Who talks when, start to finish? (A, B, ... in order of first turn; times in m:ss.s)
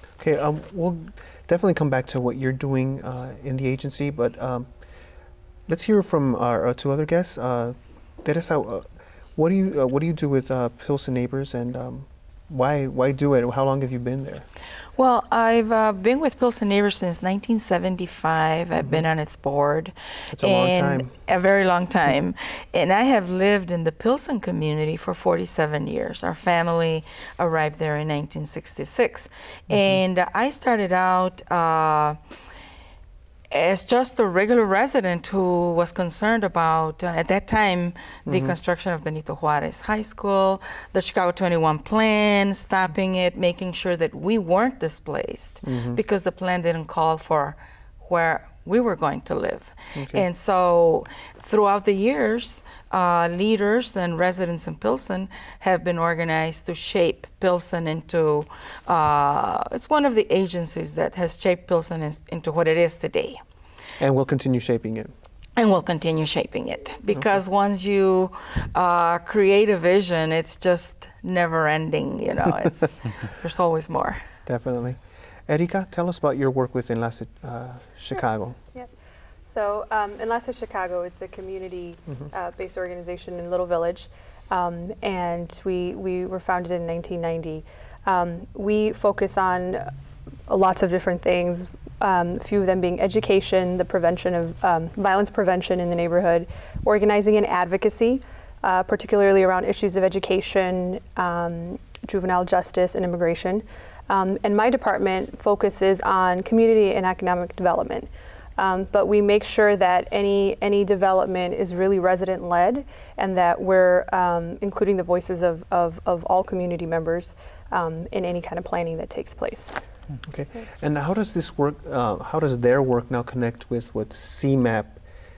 0:00.2-0:04.7 A
0:05.7-0:14.5 A
0:15.0-0:32.2 B
0:20.3-0:21.1 A
0:33.5-1:03.4 B
0:38.3-0:38.6 A
0:45.6-0:46.0 A
0:50.0-0:50.2 A
1:04.0-1:05.1 A
1:05.6-1:14.2 B
1:14.5-1:18.6 A
1:19.5-1:29.9 C
1:30.5-1:59.8 C
2:00.3-2:05.0 A